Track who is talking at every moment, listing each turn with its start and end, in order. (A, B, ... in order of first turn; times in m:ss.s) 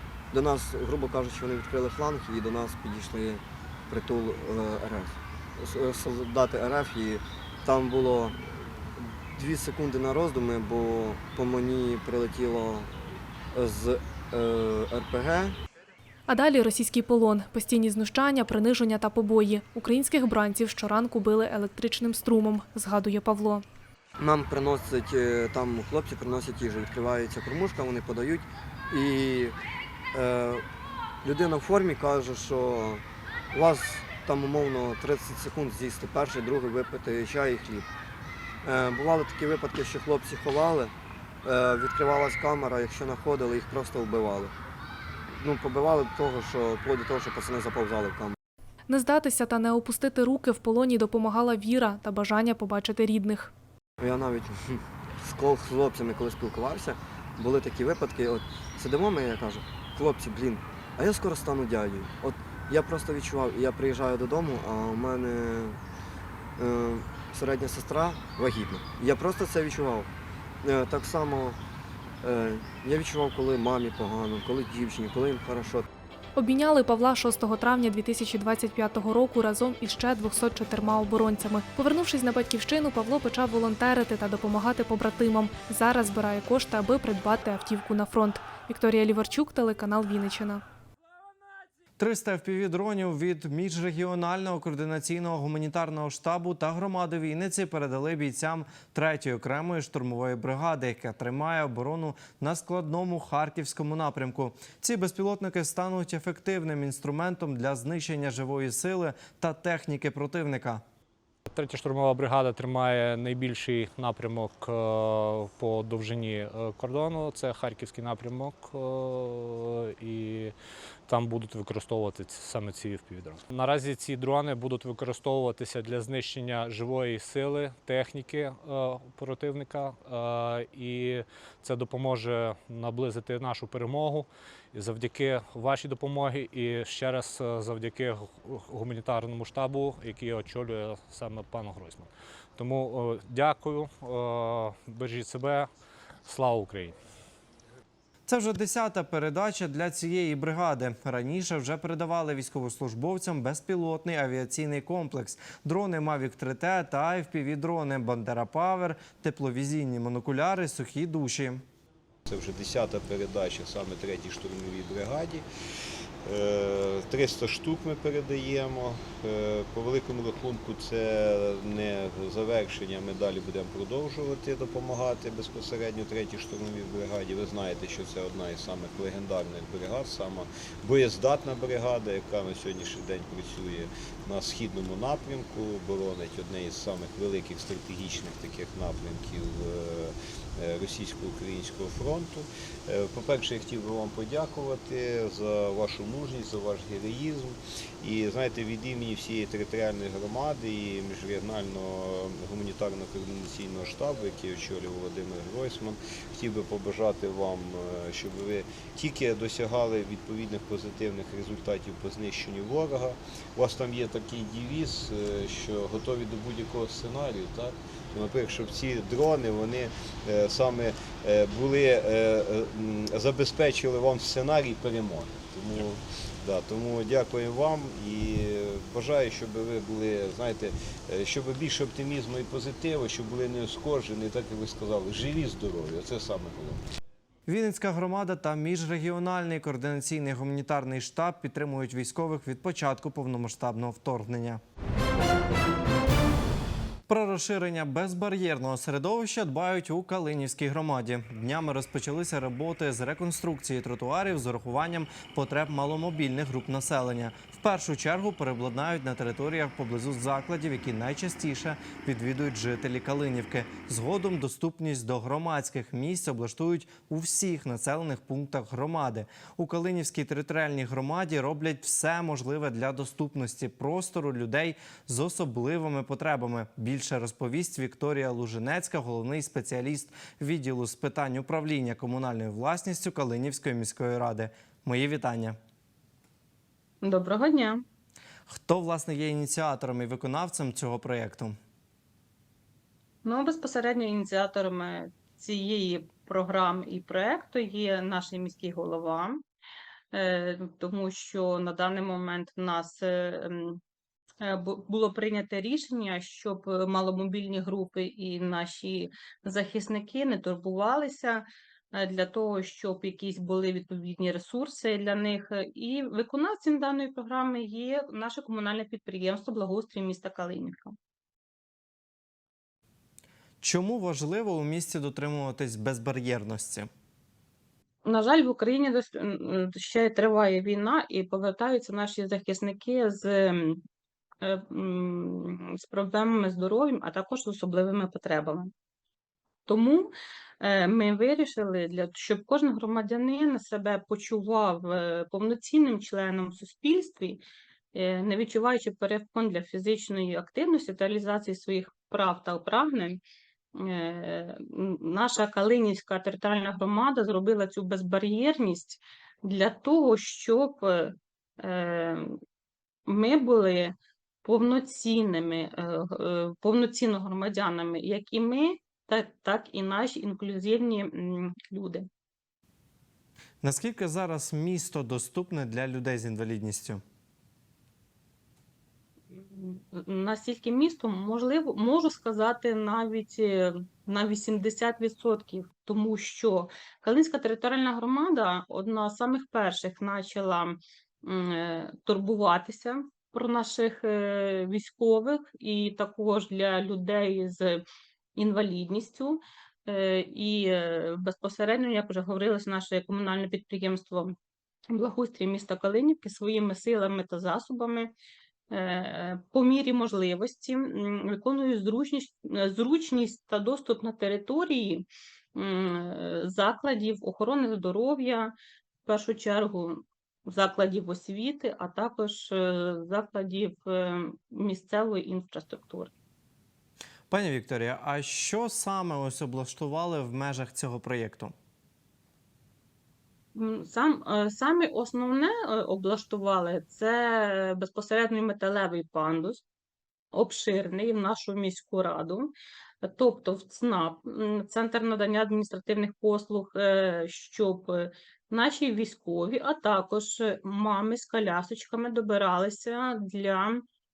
0:00.3-0:13.0 A
0:13.5-0:15.6 A
0:16.3-0:23.6 B
0:24.2-0:29.6 A
0:30.1-0:30.6 A
0:31.2-0:37.9 A
0:38.6-0:40.9 A
0:41.4-0:44.5 A
0:45.3-0:48.4 A
0:48.9-0:53.5 B
0:54.0-1:05.8 A
1:06.6-1:10.1 A
1:10.6-1:11.6 A
1:12.2-1:15.8 A
1:16.4-1:30.6 B
1:32.0-1:50.8 C
1:51.5-2:00.5 D
2:01.1-2:25.7 D
2:26.3-2:27.0 D
2:28.3-2:41.6 C
2:42.3-2:45.4 E
2:46.3-3:56.8 E
3:57.5-4:04.6 C
4:07.1-4:45.6 C
4:47.0-4:47.8 F
4:48.5-4:51.6 C
4:53.2-4:59.4 F
5:00.1-5:03.8 F
5:04.4-5:21.0 F
5:23.6-5:26.9 C
5:28.0-5:33.8 F
5:34.4-5:38.7 F
5:39.7-5:47.4 F
5:47.9-5:53.2 F
5:53.8-6:02.4 F
6:03.1-6:03.9 F
6:04.4-6:12.1 F
6:13.6-6:17.0 C
6:19.3-6:37.8 F
6:38.4-6:44.4 F
6:44.9-6:48.1 F
6:48.7-6:58.5 F
6:59.0-7:06.1 F
7:07.3-7:11.5 C
7:13.5-7:19.6 F
7:20.3-7:22.5 F
7:23.0-7:33.8 F